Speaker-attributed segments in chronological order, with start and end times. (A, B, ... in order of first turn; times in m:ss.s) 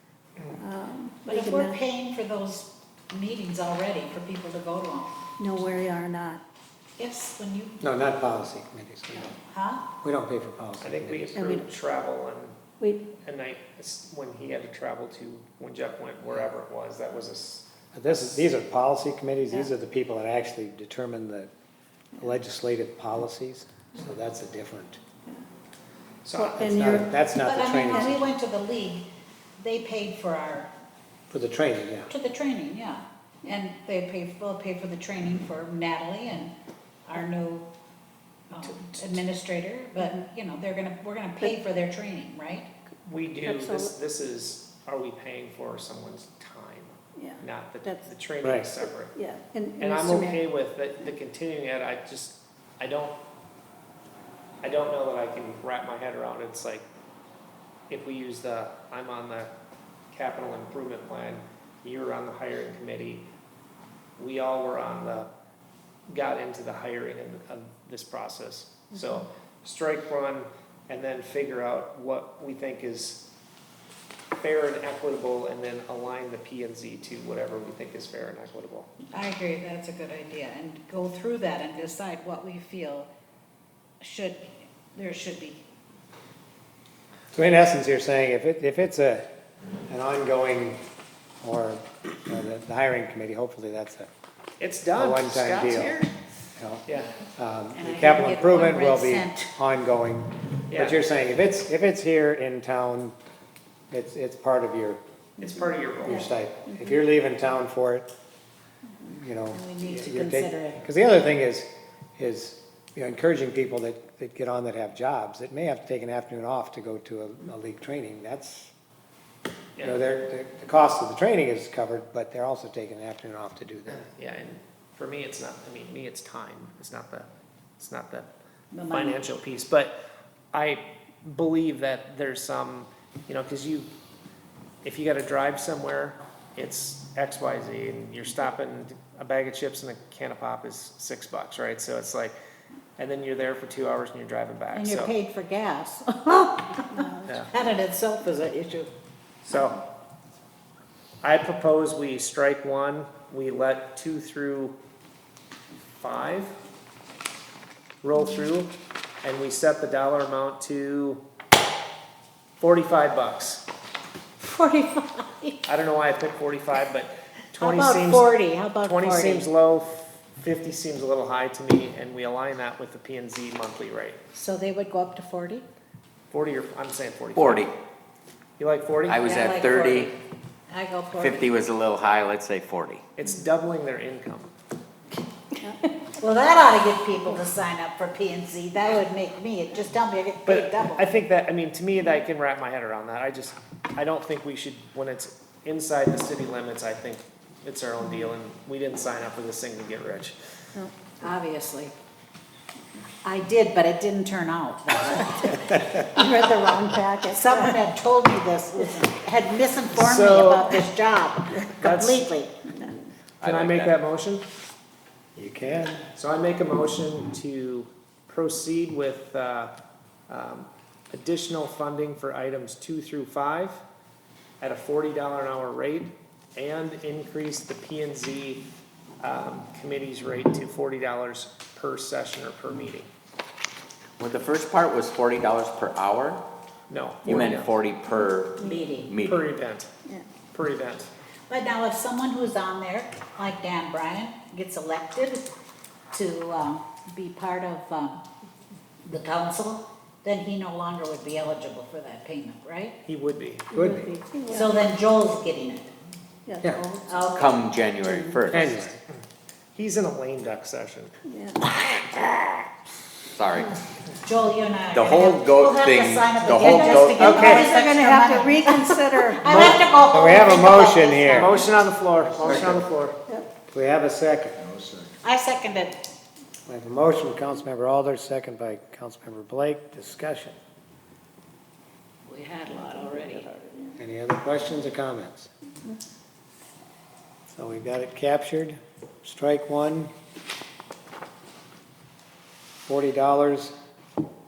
0:00.5-0:01.8 A
0:01.2-0:05.2 B
0:05.4-0:06.4 A
0:07.0-0:07.8 B
0:07.8-0:09.3 C
0:09.3-0:09.9 B
0:10.0-0:11.4 C
0:10.8-0:12.6 D
0:11.4-0:11.7 A
0:12.8-0:13.1 A
0:13.2-0:17.7 D
0:17.9-0:21.5 C
0:22.2-0:25.0 C
0:26.2-0:27.1 D
0:26.3-0:27.2 A
0:26.6-0:28.3 C
0:27.4-0:30.7 B
0:27.9-0:28.2 A
0:31.3-0:32.1 C
0:32.1-0:36.5 B
0:37.0-0:37.7 B
0:38.5-0:42.7 B
0:38.7-0:39.1 D
0:43.0-0:49.1 D
0:43.4-0:43.9 A
0:47.2-0:48.1 A
0:48.4-0:48.7 C
0:49.1-0:50.4 A
0:49.8-0:53.2 D
0:54.6-0:56.8 D
0:57.9-0:59.5 D
1:00.1-1:03.3 D
1:04.2-1:05.3 D
1:06.1-1:13.2 D
1:14.4-1:18.9 D
1:19.1-1:23.1 B
1:24.0-1:25.6 B
1:27.3-1:29.3 C
1:29.9-1:30.8 C
1:31.4-1:34.1 C
1:34.6-1:36.1 D
1:34.9-1:36.0 C
1:36.6-1:36.8 C
1:36.8-1:37.2 D
1:37.4-1:43.1 C
1:37.7-1:39.5 B
1:40.7-1:41.0 D
1:43.9-1:45.0 C
1:45.4-1:46.3 D
1:46.0-1:48.1 C
1:49.0-1:58.7 C
1:49.5-1:50.8 B
1:59.8-2:00.0 D
1:59.8-2:04.1 C
2:03.9-2:07.3 D
2:07.8-2:08.3 D
2:08.7-2:09.2 B
2:08.9-2:09.9 D
2:10.5-2:13.9 D
2:14.8-2:22.4 D
2:23.0-2:25.1 D
2:24.7-2:28.9 B
2:26.8-2:27.3 A
2:29.4-2:29.8 D
2:31.2-2:34.8 D
2:36.0-2:36.5 D
2:38.0-2:41.2 D
2:42.6-2:43.6 D
2:44.4-2:45.6 B
2:45.6-2:54.2 D
2:47.6-2:49.5 B
2:54.3-2:55.6 B
2:56.3-2:57.7 D
2:57.3-2:57.7 E
2:58.6-2:59.3 D
2:59.1-3:00.1 E
2:59.2-3:00.2 B
3:00.7-3:01.6 B
3:01.2-3:03.0 E
3:03.1-3:04.5 D
3:06.1-3:11.1 B
3:10.4-3:20.3 D
3:21.2-3:21.9 B
3:23.2-3:25.8 B
3:26.1-3:27.7 A
3:27.3-3:32.5 B
3:29.9-3:30.8 D
3:31.8-3:32.3 D
3:33.4-3:34.4 D
3:33.4-3:33.9 E
3:35.4-3:36.0 C
3:36.2-3:39.7 D
3:40.3-3:43.8 D
3:44.6-3:48.6 D
3:49.2-3:53.1 D
3:54.2-3:56.4 E
3:56.9-3:57.7 D
3:57.3-3:59.4 E
3:58.6-3:59.2 B
3:58.6-3:58.9 A
3:59.2-3:59.9 D
4:00.5-4:01.1 D
4:01.5-4:05.5 B
4:06.1-4:08.2 B
4:09.0-4:13.0 B
4:13.0-4:13.7 D
4:13.7-4:14.1 C
4:13.7-4:14.9 A
4:14.5-4:15.9 B
4:16.4-4:17.3 A
4:17.1-4:17.7 B
4:17.3-4:18.7 E
4:18.5-4:19.0 C
4:19.7-4:21.1 D
4:21.3-4:21.7 A
4:23.3-4:23.7 E
4:24.1-4:31.6 B
4:24.9-4:27.2 E
4:26.6-4:29.8 A
4:27.2-4:27.7 C
4:27.2-4:27.6 D
4:29.5-4:31.6 C
4:31.3-4:33.2 D
4:32.4-4:32.8 C
4:33.7-4:34.9 C
4:35.2-4:36.0 B
4:36.7-4:40.6 C
4:42.2-4:43.5 B
4:42.7-4:44.0 A
4:44.0-4:45.5 C
4:47.5-4:50.1 C
4:52.9-4:53.7 C